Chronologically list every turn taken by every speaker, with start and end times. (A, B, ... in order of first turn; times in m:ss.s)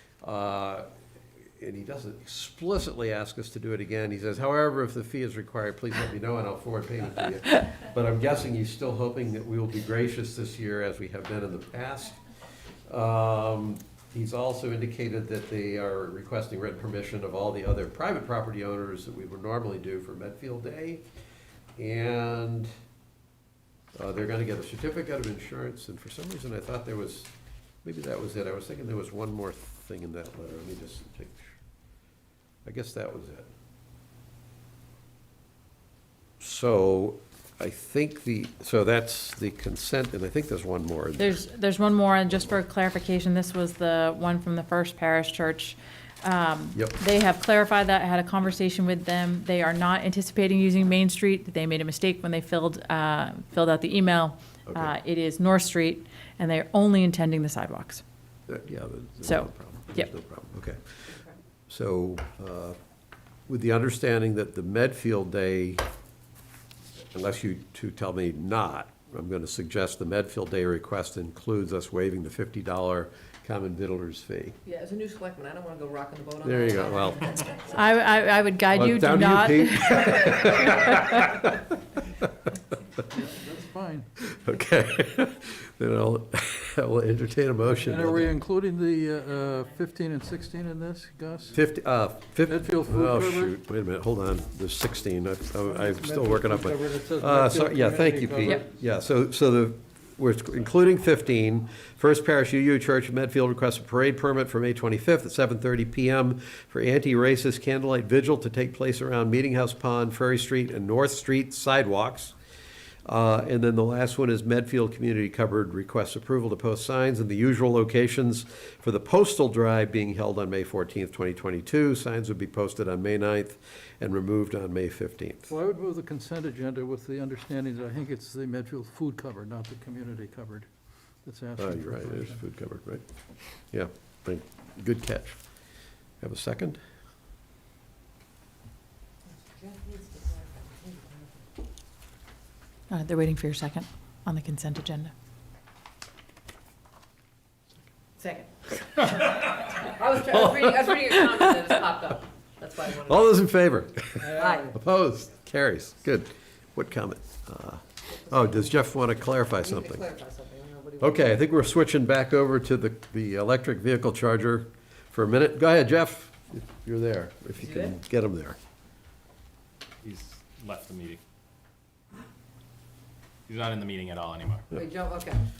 0:00.2-0:00.9 A
0:01.6-0:12.2 A
0:12.9-0:21.0 A
0:21.8-0:22.7 A
0:23.9-0:27.3 A
0:27.8-0:31.5 A
0:32.6-0:33.5 A
0:36.4-0:41.4 A
0:41.2-0:58.0 B
0:58.5-1:01.1 A
0:59.2-1:00.1 B
1:01.7-1:02.8 A
1:03.5-1:05.8 A
1:07.1-1:14.6 A
1:14.6-1:17.7 C
1:16.4-1:17.3 A
1:17.7-1:21.2 B
1:18.7-1:21.6 A
1:23.1-1:24.1 D
1:24.3-1:28.3 A
1:27.7-1:31.6 D
1:31.5-1:52.3 A
1:32.4-1:33.5 D
1:35.6-1:38.6 D
1:53.0-2:05.5 A
2:05.5-2:10.7 D
2:11.2-2:12.4 D
2:11.6-2:13.0 A
2:13.7-2:15.4 A
2:16.2-2:16.8 A
2:19.3-2:21.5 C
2:22.9-2:25.1 B
2:29.4-2:33.3 C
2:30.3-2:30.6 A
2:33.0-2:40.1 A
2:34.2-2:34.7 D
2:34.3-2:34.7 C
2:38.3-2:38.7 C
2:39.5-2:41.3 C
2:41.0-2:48.6 A
2:47.6-2:47.9 C
2:50.0-2:51.2 E
2:53.5-2:54.7 E
2:54.7-2:55.4 C